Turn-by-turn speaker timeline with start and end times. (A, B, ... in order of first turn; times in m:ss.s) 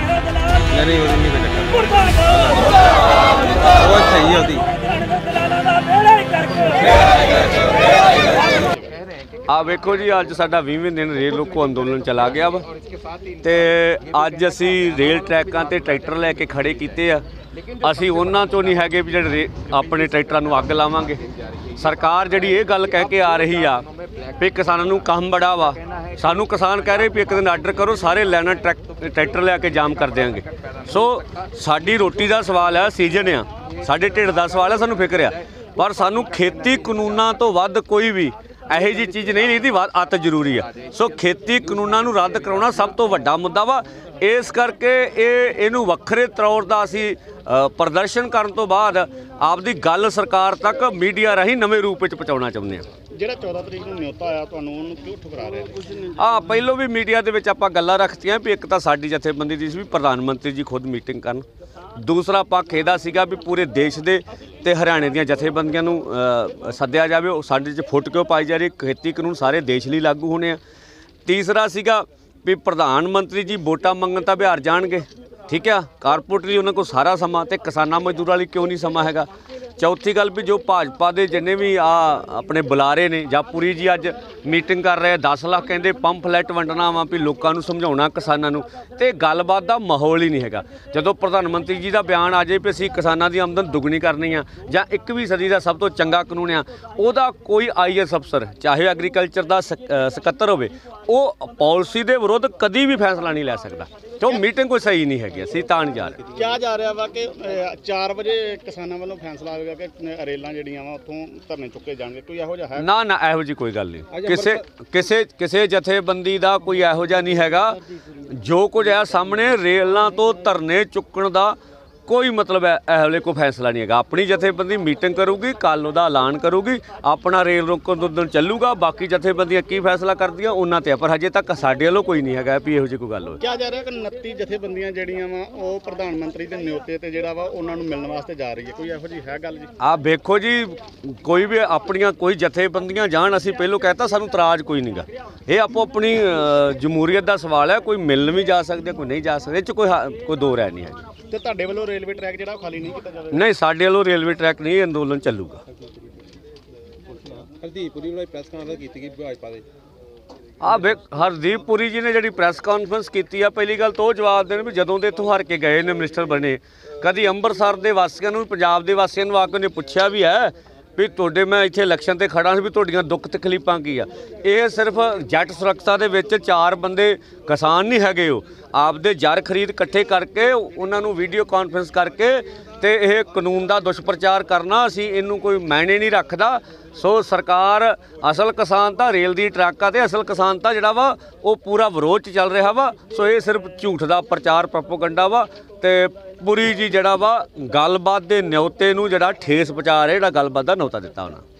0:00.7-0:02.8 A
0:03.7-0:04.7 A
0:09.5-0:12.7 B
0:13.4-0:17.2 B
0:17.8-0:21.2 B
0:21.8-0:23.9 B
0:24.4-0:52.8 B
0:53.2-0:56.1 C
0:56.2-1:01.4 B
1:02.0-1:10.6 B
1:11.2-1:46.2 B
1:46.1-1:46.5 A
1:46.3-1:52.9 C
1:52.8-2:01.6 B
1:54.1-1:54.6 A
2:02.1-2:13.4 B
2:13.4-2:19.7 C
2:19.8-2:31.0 B
2:31.3-2:33.4 C
2:33.3-2:35.6 B
2:37.3-2:39.7 A
2:40.6-3:21.4 B